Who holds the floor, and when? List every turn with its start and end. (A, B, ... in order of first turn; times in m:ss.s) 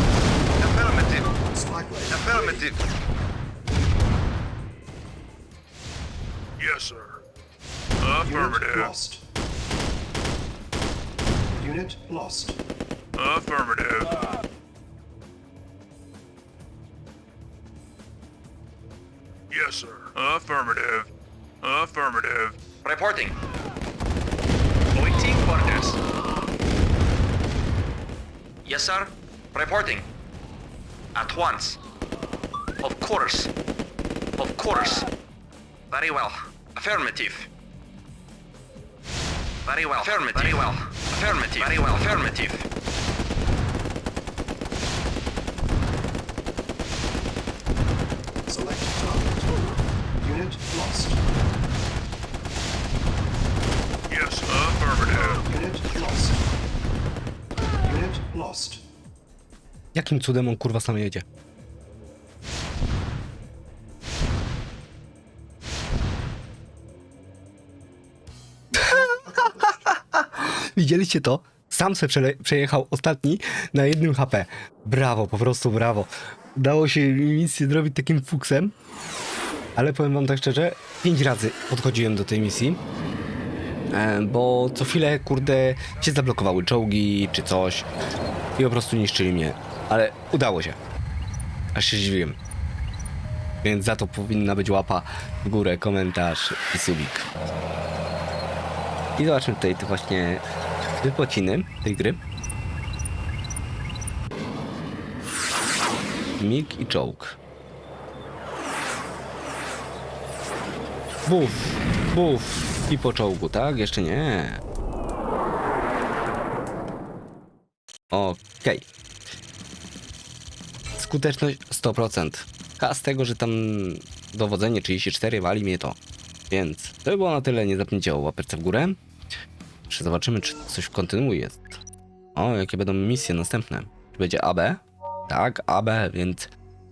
0:01.0-0:02.8 A
0:06.6-0:07.2 B
0:08.0-0:08.9 B
0:08.2-0:09.2 A
0:11.6-0:12.6 A
0:13.2-0:14.3 B
0:19.5-0:21.1 B
0:21.6-0:22.6 B
0:22.8-0:23.4 C
0:25.0-0:26.0 C
0:28.6-0:30.1 C
0:31.2-0:31.8 C
0:32.8-0:33.5 C
0:34.4-0:35.1 C
0:35.9-0:37.5 C
0:39.6-0:42.7 C
0:48.5-0:51.2 A
0:54.1-0:55.4 B
0:55.4-0:56.4 A
0:57.8-0:58.8 A
1:00.0-1:01.2 D
1:08.7-1:18.7 D
1:08.9-1:09.7 A
1:19.8-1:22.8 D
1:23.9-1:27.9 D
1:28.6-1:30.8 D
1:31.7-1:32.4 D
1:33.6-1:37.3 D
1:39.2-1:40.4 D
1:41.0-1:42.2 D
1:46.4-1:47.4 D
1:51.3-1:54.6 D
1:58.1-1:58.9 D
2:01.0-2:06.0 D
2:06.5-2:09.0 D
2:09.9-2:11.8 D
2:12.4-2:16.5 D